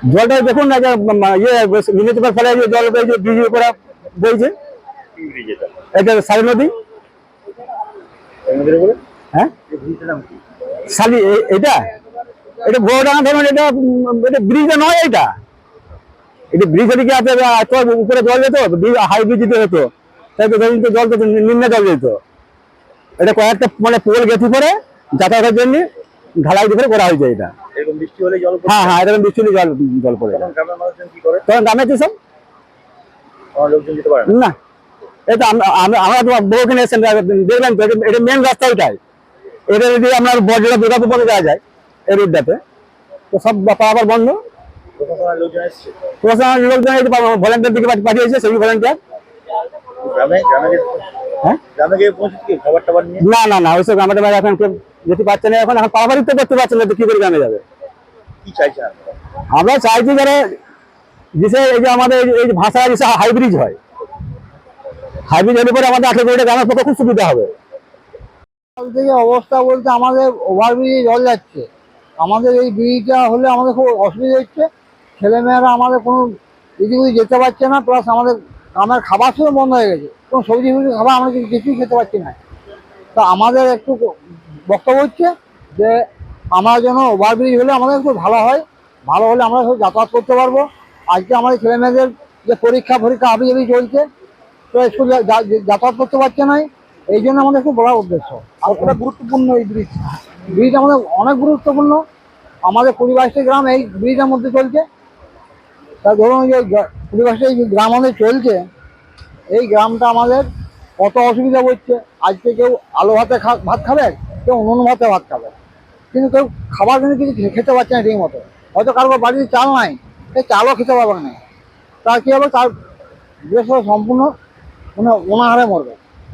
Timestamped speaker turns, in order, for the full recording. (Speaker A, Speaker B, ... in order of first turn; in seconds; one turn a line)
Speaker A: 0.1-4.5
Speaker B: 5.2-5.8
Speaker A: 5.9-6.7
Speaker B: 8.5-9.0
Speaker B: 9.7-10.4
Speaker A: 10.9-11.8
Speaker A: 12.7-15.3
Speaker A: 16.5-22.2
Speaker A: 23.2-25.9
Speaker A: 26.4-27.5
Speaker B: 27.8-29.0
Speaker A: 28.7-30.5
Speaker B: 30.3-31.4
Speaker A: 31.5-32.1
Speaker B: 33.6-34.3
Speaker A: 34.3-34.6
Speaker A: 35.3-39.0
Speaker A: 39.7-42.6
Speaker A: 43.3-44.4
Speaker B: 45.0-45.9
Speaker A: 46.2-49.0
Speaker B: 50.0-51.0
Speaker B: 51.7-53.2
Speaker A: 53.2-57.6
Speaker B: 58.5-59.1
Speaker A: 59.5-60.4
Speaker A: 61.4-63.8
Speaker A: 65.3-67.5
Speaker C: 68.8-71.7
Speaker C: 72.2-74.7
Speaker C: 75.2-82.4
Speaker C: 83.2-84.1
Speaker C: 84.7-86.0
Speaker C: 86.5-94.0
Speaker C: 94.7-99.9
Speaker B: 99.1-99.7
Speaker C: 100.5-102.0
Speaker C: 102.7-104.8
Speaker C: 106.0-108.6
Speaker C: 109.5-110.5
Speaker C: 111.0-115.5
Speaker C: 116.1-121.4
Speaker C: 122.0-122.7
Speaker C: 123.5-124.3
Speaker C: 125.0-126.0